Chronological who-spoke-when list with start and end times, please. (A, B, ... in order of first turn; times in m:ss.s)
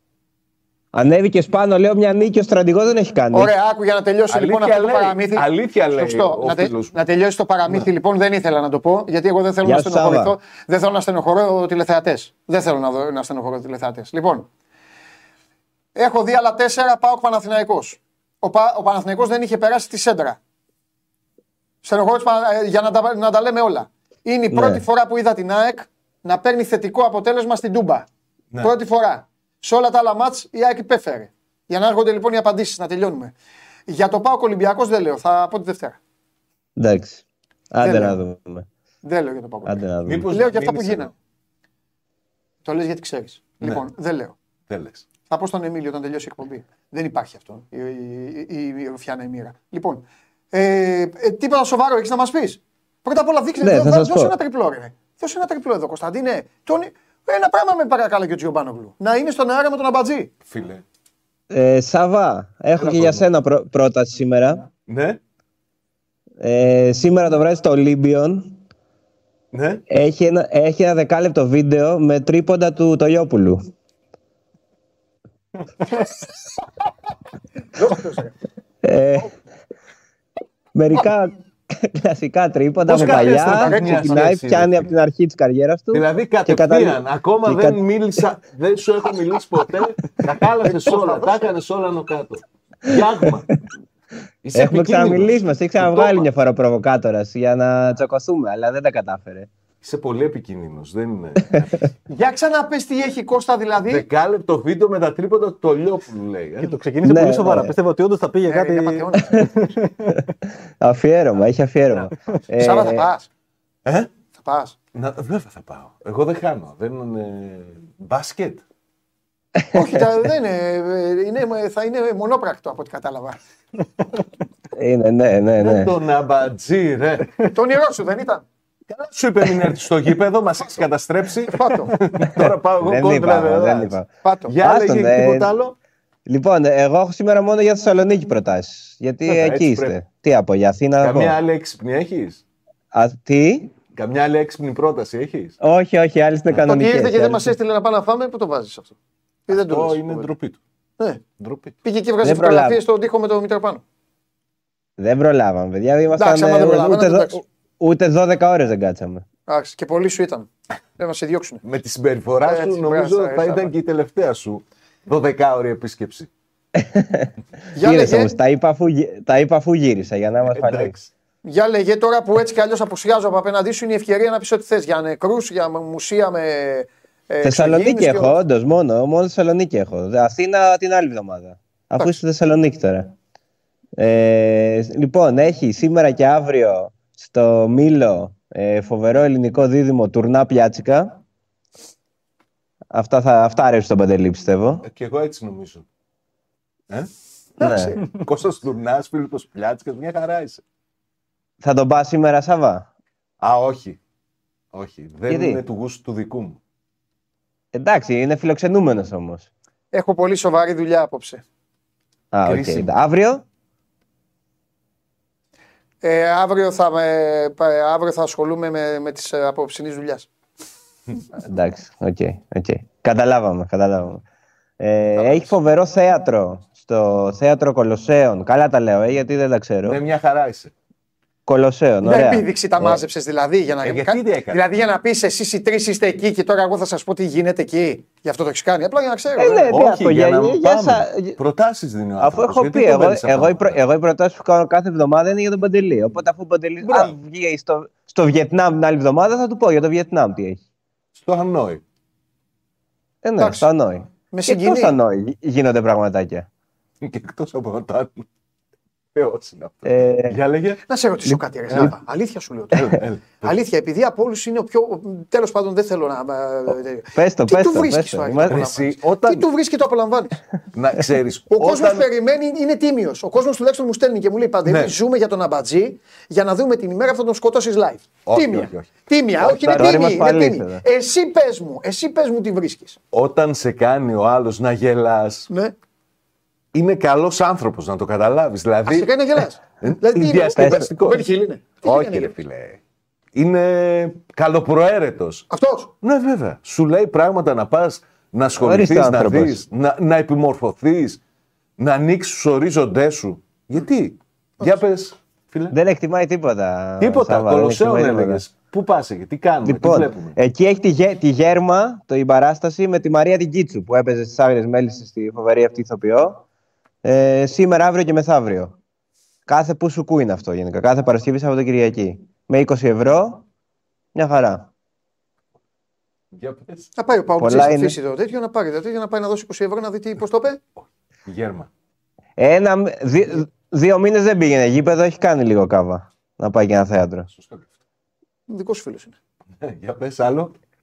0:00.9-0:03.5 A
0:03.3-0:14.5 B
0:04.3-0:07.0 C
0:09.6-0:10.4 A
0:15.9-0:20.4 B
0:21.8-0:28.1 B
0:24.5-0:24.8 A
0:28.6-0:33.3 B
0:33.9-0:36.0 B
0:36.8-0:38.6 A
0:37.8-0:38.2 B
0:39.0-0:41.1 B
0:39.6-0:40.3 A
0:40.1-0:41.1 C
0:42.6-0:44.3 B
0:43.6-0:43.8 C
0:44.7-0:45.0 C
0:45.3-1:00.3 B
0:53.6-0:54.4 A
1:00.4-1:00.8 C
1:01.5-1:04.6 A
1:02.8-1:03.2 C
1:04.9-1:05.2 C
1:06.4-1:08.6 A
1:09.5-1:09.8 C
1:09.9-1:13.7 A
1:17.7-1:18.3 B
1:18.8-1:19.3 A
1:20.7-1:27.8 A
1:22.9-1:24.3 B
1:22.9-1:24.8 C
1:25.9-1:33.5 C
1:30.6-1:31.4 B
1:34.4-1:36.2 C
1:34.5-1:39.5 A
1:39.8-1:41.7 C
1:42.1-1:44.0 B
1:43.9-1:46.7 C
1:46.6-1:50.2 D
1:47.0-1:47.7 A
1:48.5-1:49.4 B
1:50.8-1:53.1 A
1:52.6-1:53.3 B
1:53.8-1:54.1 C
1:54.3-1:54.7 B
1:54.9-1:58.6 C
1:59.7-2:03.4 B
2:04.7-2:06.0 A
2:05.6-2:07.3 C
2:07.5-2:08.4 B
2:08.9-2:14.0 C
2:11.5-2:11.9 B
2:12.3-2:15.5 A
2:14.2-2:14.5 B
2:14.5-2:15.7 C
2:16.3-2:21.4 A
2:19.3-2:20.0 C
2:21.0-2:22.4 C
2:22.9-2:23.7 A
2:23.9-2:25.6 C
2:25.6-2:27.5 A
2:26.6-2:29.0 B
2:29.5-2:30.3 B
2:29.5-2:30.6 C
2:31.4-2:31.8 C
2:31.8-2:33.8 B
2:32.2-2:32.8 A
2:35.0-2:39.2 A
2:36.2-2:37.4 B
2:39.5-2:41.6 B
2:41.6-2:46.3 C
2:42.4-2:43.7 B
2:46.8-2:47.3 A
2:47.7-2:48.3 B
2:47.8-2:50.9 A
2:50.4-2:51.1 C
2:51.4-2:58.4 B
2:57.4-3:03.1 A
3:04.0-3:11.1 A
3:12.9-3:14.8 A
3:14.8-3:15.8 C
3:17.6-3:18.0 B
3:17.6-3:17.9 A
3:18.0-3:20.6 C
3:21.6-3:22.8 A
3:23.4-3:24.0 C
3:24.7-3:26.6 C
3:25.3-3:25.6 A
3:27.7-3:29.5 A
3:29.9-3:31.4 B
3:32.3-3:33.4 A
3:32.4-3:32.9 C
3:36.0-3:40.3 B
3:41.4-3:44.2 A
3:44.8-3:50.0 A
3:45.1-3:45.5 B
3:49.8-3:50.7 C
3:51.5-3:53.0 A
3:52.0-3:59.7 B
3:53.8-3:54.6 C
3:59.4-4:01.4 A
3:59.7-4:03.8 C
4:02.2-4:10.6 A
4:06.8-4:07.1 C
4:11.1-4:11.8 C
4:13.2-4:16.4 A
4:13.4-4:13.7 B
4:14.3-4:14.9 B
4:17.0-4:18.2 C
4:19.1-4:20.8 C
4:19.8-4:20.4 A
4:20.9-4:22.9 B
4:21.3-4:21.9 A
4:22.7-4:23.5 C
4:23.4-4:30.4 B
4:27.1-4:28.6 A
4:28.5-4:29.4 C
4:30.7-4:32.1 C
4:31.5-4:43.0 B
4:34.6-4:34.9 C
4:38.2-4:40.0 C
4:39.5-4:40.8 A
4:43.1-4:45.5 C
4:46.7-4:51.3 C
4:48.8-4:52.3 B
4:50.6-4:50.9 A
4:51.8-4:52.8 C
4:53.3-4:55.5 C
4:55.5-4:55.9 B
4:56.0-5:01.2 C
4:58.6-4:59.6 A
5:01.8-5:05.7 C
5:05.7-5:08.5 A
5:07.0-5:10.4 C
5:09.6-5:16.4 A
5:17.0-5:18.8 A
5:19.5-5:23.4 A
5:24.1-5:24.7 A
5:26.3-5:26.9 C
5:27.0-5:30.6 B
5:27.4-5:28.0 A
5:30.8-5:31.7 C
5:32.4-5:37.3 A
5:37.3-5:37.6 C
5:38.5-5:39.2 B
5:39.6-5:40.5 C